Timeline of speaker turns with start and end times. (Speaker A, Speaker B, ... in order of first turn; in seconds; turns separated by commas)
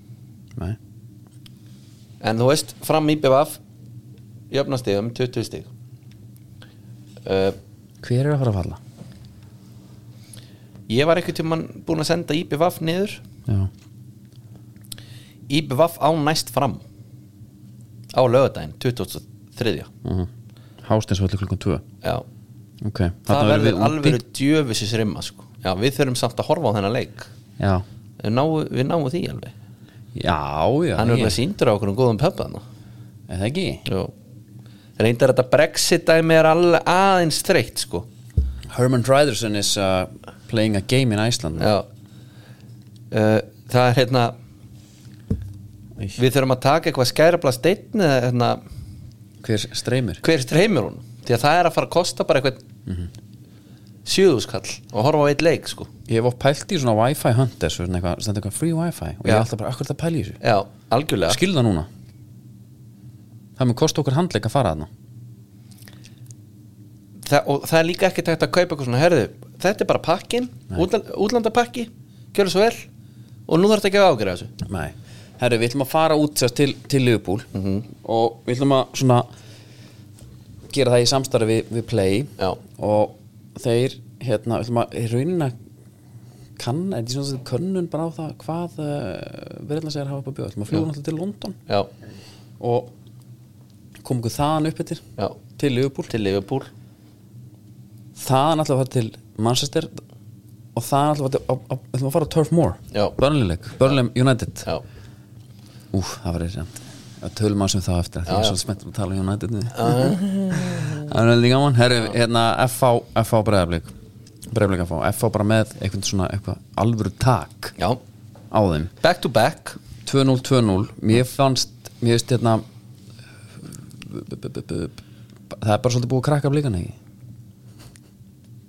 Speaker A: 2.2-3.6, Speaker A: 4.5-5.7, Speaker A: 7.2-7.5, Speaker B: 8.0-8.8, Speaker A: 10.9-13.2, Speaker A: 15.5-16.8, Speaker A: 18.1-19.9, Speaker B: 20.0-20.3, Speaker B: 20.8-21.8, Speaker B: 22.8-24.2, Speaker A: 23.3-27.3, Speaker B: 27.6-27.8, Speaker A: 28.2-29.5, Speaker B: 30.1-31.4, Speaker A: 31.0-32.6, Speaker B: 33.3-33.8, Speaker A: 33.9-34.1, Speaker A: 35.0-38.1, Speaker B: 38.7-41.7, Speaker A: 41.6-41.9, Speaker A: 43.1-44.3, Speaker A: 46.1-48.6, Speaker B: 49.4-50.2, Speaker A: 50.2-52.6, Speaker A: 54.0-55.9, Speaker B: 56.1-60.4, Speaker A: 60.4-61.4, Speaker B: 61.3-61.9, Speaker B: 63.6-64.9, Speaker A: 67.2-72.8, Speaker A: 73.5-74.5, Speaker B: 74.6-77.5, Speaker A: 77.5-77.8, Speaker B: 78.0-79.3, Speaker B: 80.7-85.5, Speaker B: 86.6-91.6, Speaker B: 92.6-92.9, Speaker B: 94.0-96.1, Speaker A: 96.1-96.7, Speaker B: 98.2-100.0, Speaker B: 100.7-104.7, Speaker B: 105.9-113.9, Speaker A: 108.3-108.6, Speaker A: 109.7-111.0, Speaker B: 114.5-117.8, Speaker B: 118.5-118.9, Speaker A: 119.0-119.8, Speaker B: 120.0-122.6, Speaker B: 124.0-126.9